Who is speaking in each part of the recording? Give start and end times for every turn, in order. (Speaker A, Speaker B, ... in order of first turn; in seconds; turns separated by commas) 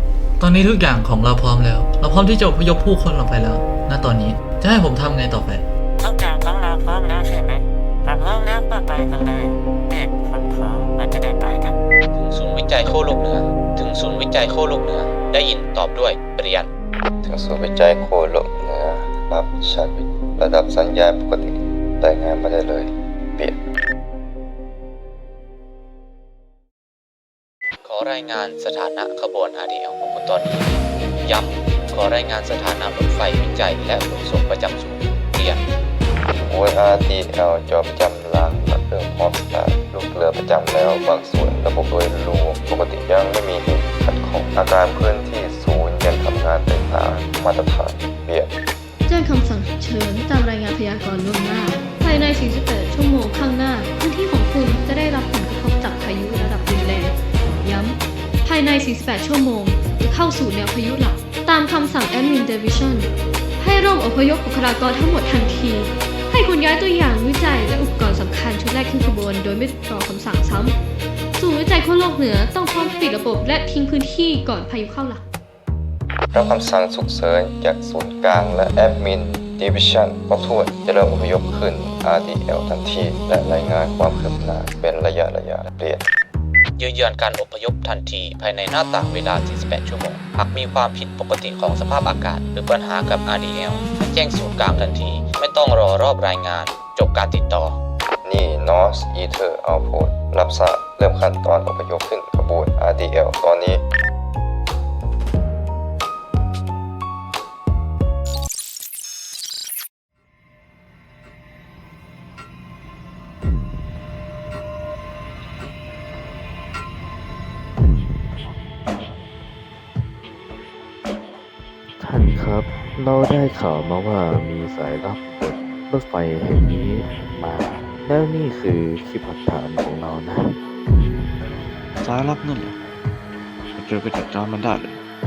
Speaker A: 0.4-5.6, Speaker B: 6.0-11.8, Speaker C: 12.1-16.7, Speaker D: 17.2-23.6, Speaker C: 27.8-30.7, Speaker C: 31.2-35.6, Speaker D: 36.4-48.5, Speaker E: 49.0-70.8, Speaker E: 71.3-75.2, Speaker D: 76.3-86.1, Speaker C: 86.8-97.8, Speaker D: 98.2-103.8, Speaker F: 122.0-130.6, Speaker G: 132.0-132.8, Speaker G: 133.7-135.0